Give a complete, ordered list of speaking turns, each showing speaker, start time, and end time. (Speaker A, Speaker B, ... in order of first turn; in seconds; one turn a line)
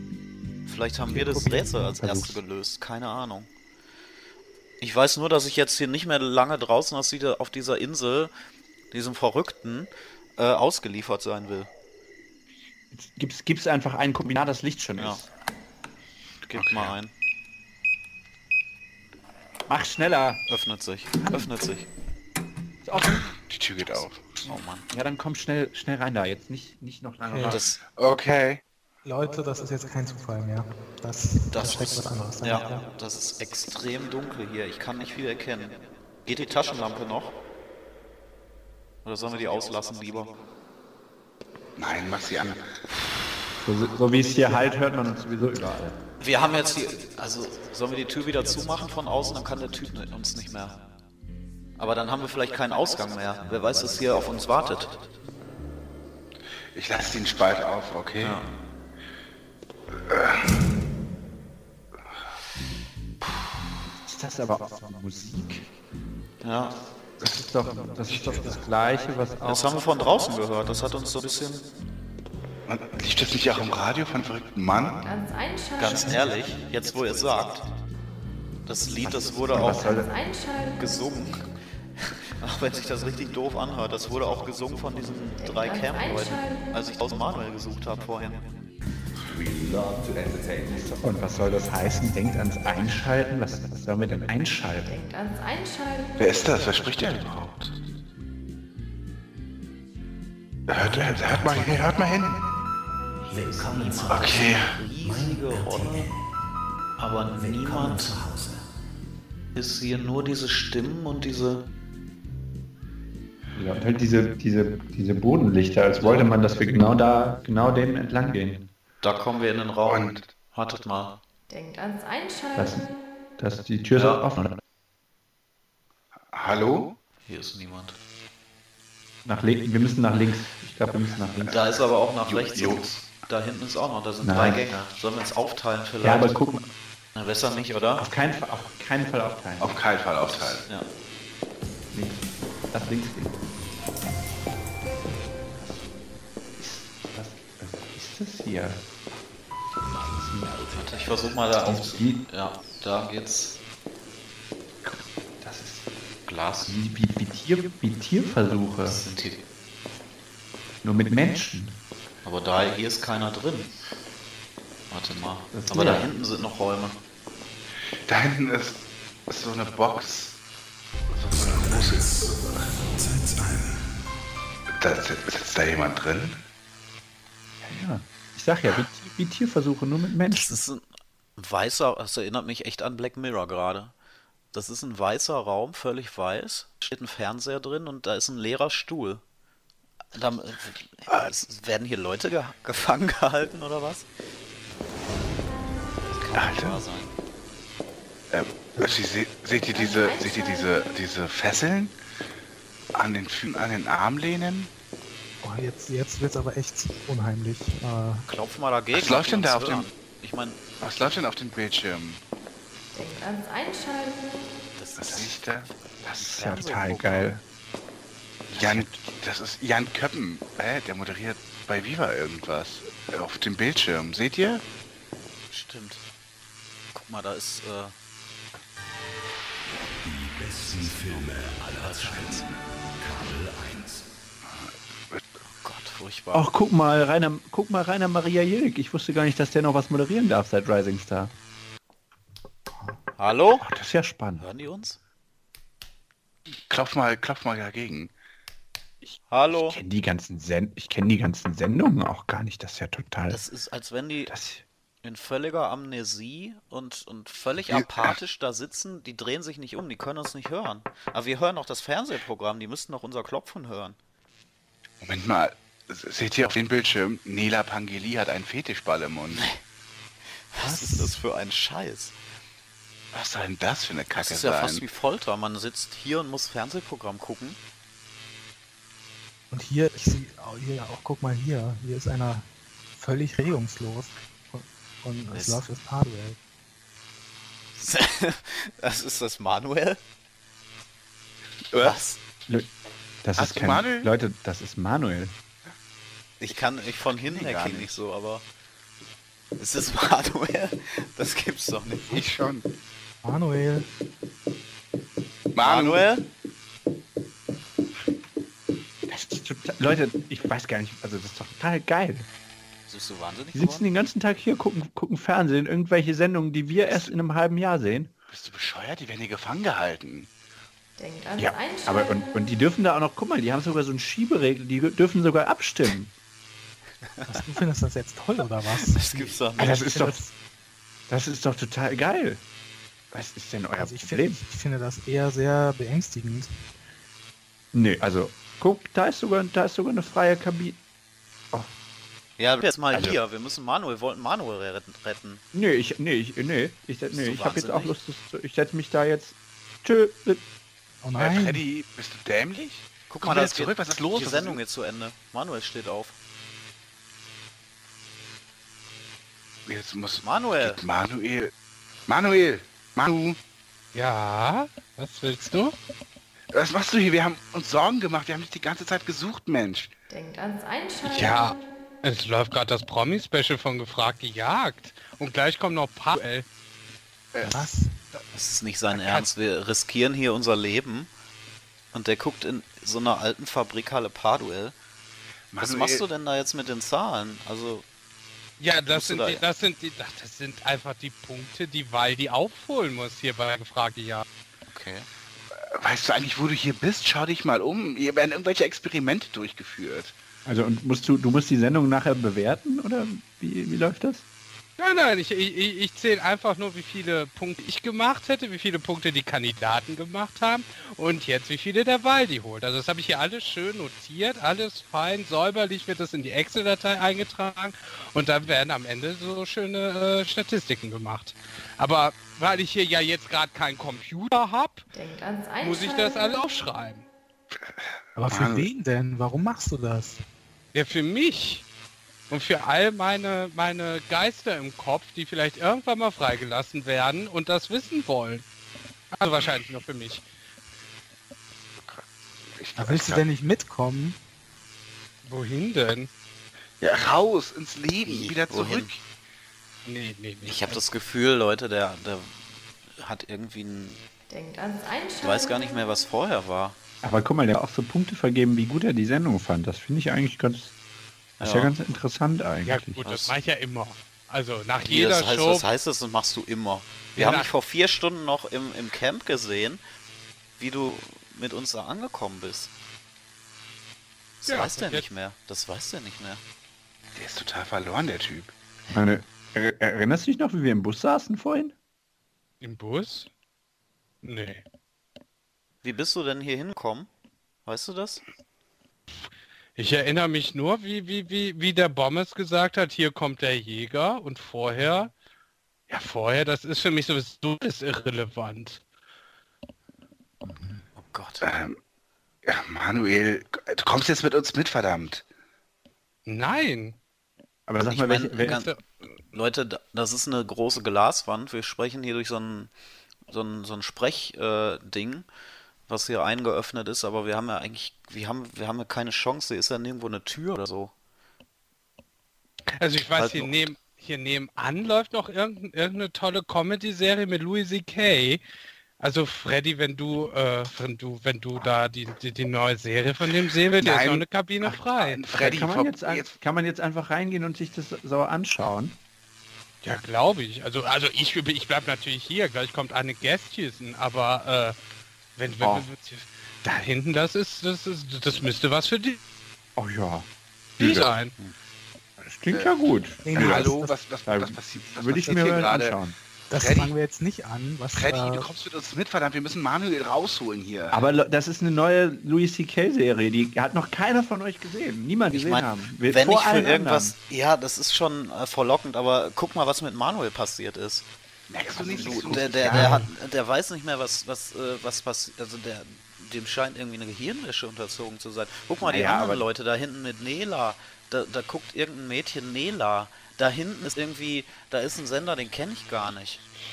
Speaker A: 0.7-3.5
Speaker B: 1.1-2.4
Speaker A: 4.8-8.3
Speaker A: 8.9-11.7
Speaker B: 12.9-15.3
Speaker A: 16.5-17.1
Speaker C: 16.6-16.9
Speaker B: 19.7-20.4
Speaker A: 20.5-21.9
Speaker B: 21.2-21.5
Speaker B: 22.8-23.3
Speaker C: 23.4-24.4
Speaker A: 24.4-24.9
Speaker B: 24.9-27.8
Speaker D: 27.2-27.6
Speaker A: 27.4-27.8
Speaker C: 27.9-28.6
Speaker D: 29.1-32.8
Speaker A: 31.5-37.3
Speaker A: 39.0-40.3
Speaker C: 41.8-42.6
Speaker B: 43.6-46.0
Speaker A: 46.2-50.8
Speaker A: 51.8-55.0
Speaker C: 56.7-58.4
Speaker A: 58.2-58.5
Speaker C: 60.1-60.4
Speaker B: 64.0-65.7
Speaker A: 66.4-66.8
Speaker B: 67.2-69.7
Speaker A: 69.4-71.7
Speaker C: 72.7-75.0
Speaker E: 75.0-76.2
Speaker A: 75.8-77.7
Speaker A: 78.7-80.0
Speaker B: 79.1-80.1
Speaker E: 80.3-80.5
Speaker A: 80.6-88.5
Speaker B: 89.4-94.9
Speaker E: 95.1-96.2
Speaker C: 96.2-97.7
Speaker C: 100.7-102.4
Speaker A: 103.3-106.2
Speaker C: 104.1-104.8
Speaker A: 107.0-108.5
Speaker A: 109.5-111.7
Speaker B: 113.5-118.7
Speaker A: 116.0-116.3
Speaker A: 119.0-121.2
Speaker C: 119.8-120.3
Speaker E: 121.5-122.7
Speaker B: 122.5-124.6
Speaker A: 123.9-124.3
Speaker C: 126.3-127.0
Speaker A: 127.3-128.0
Speaker B: 129.2-131.6
Speaker C: 131.4-131.7
Speaker A: 131.5-136.3
Speaker C: 132.3-132.9
Speaker B: 134.2-134.8
Speaker B: 136.0-136.7
Speaker A: 137.2-138.1
Speaker B: 137.9-139.8
Speaker C: 139.6-140.7
Speaker A: 140.3-140.9
Speaker B: 141.9-143.4
Speaker B: 145.5-145.9
Speaker B: 146.6-148.8
Speaker B: 150.0-152.2
Speaker A: 150.7-153.6
Speaker B: 154.8-155.9
Speaker A: 156.3-156.8
Speaker B: 156.7-159.0
Speaker A: 158.8-159.4
Speaker B: 160.8-161.8
Speaker A: 162.2-163.7
Speaker A: 164.9-167.0
Speaker B: 165.5-166.1
Speaker C: 168.1-170.4
Speaker C: 171.1-172.3
Speaker C: 173.0-173.7
Speaker C: 174.8-176.4
Speaker B: 177.6-180.6
Speaker A: 180.3-180.8
Speaker A: 181.4-183.9
Speaker A: 184.5-189.2
Speaker A: 190.1-194.1
Speaker A: 196.1-197.1
Speaker C: 196.3-196.8
Speaker C: 198.3-201.9
Speaker E: 199.7-200.9
Speaker C: 202.9-204.7
Speaker D: 205.4-208.2
Speaker A: 208.3-210.6
Speaker C: 208.9-209.9
Speaker C: 210.8-212.2
Speaker E: 212.9-214.3
Speaker A: 214.8-215.5
Speaker C: 215.0-215.7
Speaker B: 216.0-217.4
Speaker A: 216.2-217.3
Speaker B: 218.6-219.1
Speaker C: 218.6-224.6
Speaker A: 225.5-226.0
Speaker A: 226.9-227.9
Speaker A: 230.4-232.5
Speaker C: 234.6-235.2
Speaker A: 235.6-236.5
Speaker B: 236.3-241.3
Speaker A: 243.2-243.7
Speaker B: 243.6-244.5
Speaker A: 244.4-245.0
Speaker C: 246.7-248.1
Speaker B: 249.0-253.4
Speaker A: 249.3-249.8
Speaker A: 253.3-254.3
Speaker B: 254.3-254.6
Speaker A: 255.0-264.0
Speaker C: 257.6-258.2
Speaker C: 265.0-269.5
Speaker A: 269.3-269.6
Speaker A: 270.5-272.1
Speaker D: 270.6-271.2
Speaker C: 273.1-274.8
Speaker A: 274.1-277.6
Speaker D: 279.5-286.4
Speaker A: 285.3-285.6
Speaker A: 287.8-290.0
Speaker A: 291.8-292.2
Speaker B: 293.2-295.4
Speaker C: 293.4-294.1
Speaker A: 296.4-298.4
Speaker C: 296.5-298.0
Speaker A: 299.6-302.2
Speaker C: 302.1-302.6
Speaker D: 303.2-303.9
Speaker C: 305.5-306.1
Speaker A: 305.6-306.3
Speaker B: 309.1-312.3
Speaker A: 312.9-313.9
Speaker B: 313.5-318.1
Speaker C: 318.3-320.3
Speaker E: 321.0-322.2
Speaker B: 321.4-326.1
Speaker D: 327.3-330.3
Speaker A: 328.7-329.9
Speaker B: 329.6-330.2
Speaker B: 331.1-332.4
Speaker B: 333.1-334.4
Speaker D: 333.8-336.5
Speaker B: 337.7-340.8
Speaker A: 342.4-345.4
Speaker B: 342.9-343.2
Speaker B: 345.5-350.4
Speaker A: 347.1-347.9
Speaker D: 351.0-351.6
Speaker C: 351.2-354.6
Speaker A: 353.1-356.1
Speaker C: 359.6-361.5
Speaker A: 360.2-360.8
Speaker C: 362.1-363.4
Speaker F: 363.9-365.7
Speaker C: 366.5-369.9
Speaker E: 370.1-371.5
Speaker F: 371.0-376.4
Speaker C: 377.3-378.2
Speaker D: 377.4-377.9
Speaker A: 378.3-381.1
Speaker A: 381.9-384.7
Speaker C: 385.5-386.0
Speaker A: 385.6-387.9
Speaker F: 388.6-394.3
Speaker A: 388.9-389.4
Speaker A: 394.7-395.1
Speaker C: 395.6-400.1
Speaker B: 400.4-404.2
Speaker F: 404.8-424.9
Speaker E: 424.9-426.4
Speaker F: 425.6-427.1
Speaker C: 427.6-428.7
Speaker D: 428.1-430.2
Speaker F: 430.7-431.6
Speaker F: 432.3-438.4
Speaker F: 439.1-440.3
Speaker C: 441.9-443.2
Speaker D: 442.8-444.2
Speaker F: 445.2-446.1
Speaker C: 446.8-449.0
Speaker A: 448.1-448.9
Speaker F: 449.9-450.8
Speaker A: 450.4-452.4
Speaker A: 452.9-454.0
Speaker E: 454.3-455.7
Speaker A: 455.2-456.8
Speaker B: 457.0-460.7
Speaker A: 461.4-461.7
Speaker B: 461.4-463.0
Speaker F: 462.6-465.7
Speaker A: 463.0-463.4
Speaker A: 464.8-469.8
Speaker F: 467.1-467.5
Speaker A: 470.6-472.7
Speaker A: 474.4-476.4
Speaker F: 474.4-475.1
Speaker C: 477.1-478.5
Speaker B: 478.9-481.7
Speaker F: 482.6-483.3
Speaker F: 484.2-484.6
Speaker A: 485.8-487.1
Speaker A: 487.6-488.2
Speaker F: 489.8-495.1
Speaker F: 495.9-498.8
Speaker A: 500.4-501.4
Speaker C: 501.4-501.8
Speaker C: 502.4-505.2
Speaker F: 506.3-507.0
Speaker B: 507.7-508.6
Speaker A: 507.9-508.7
Speaker F: 508.4-508.8
Speaker A: 509.3-512.7
Speaker A: 513.3-515.3
Speaker A: 515.9-520.9
Speaker F: 522.8-528.4
Speaker A: 523.1-523.6
Speaker F: 529.0-535.3
Speaker C: 533.8-536.3
Speaker B: 535.3-539.0
Speaker F: 539.8-544.8
Speaker F: 545.4-549.2
Speaker B: 545.6-545.9
Speaker B: 549.8-550.3
Speaker B: 550.8-551.1
Speaker F: 550.8-551.3
Speaker B: 552.2-553.7
Speaker D: 553.2-553.9
Speaker C: 553.3-556.0
Speaker B: 554.3-556.1
Speaker D: 555.2-555.7
Speaker D: 556.5-558.5
Speaker C: 556.6-556.9
Speaker C: 557.9-561.0
Speaker B: 560.9-567.1
Speaker A: 565.3-571.1
Speaker C: 571.5-573.1
Speaker A: 571.7-586.4
Speaker B: 571.9-572.6
Speaker D: 572.7-573.1
Speaker B: 578.8-579.5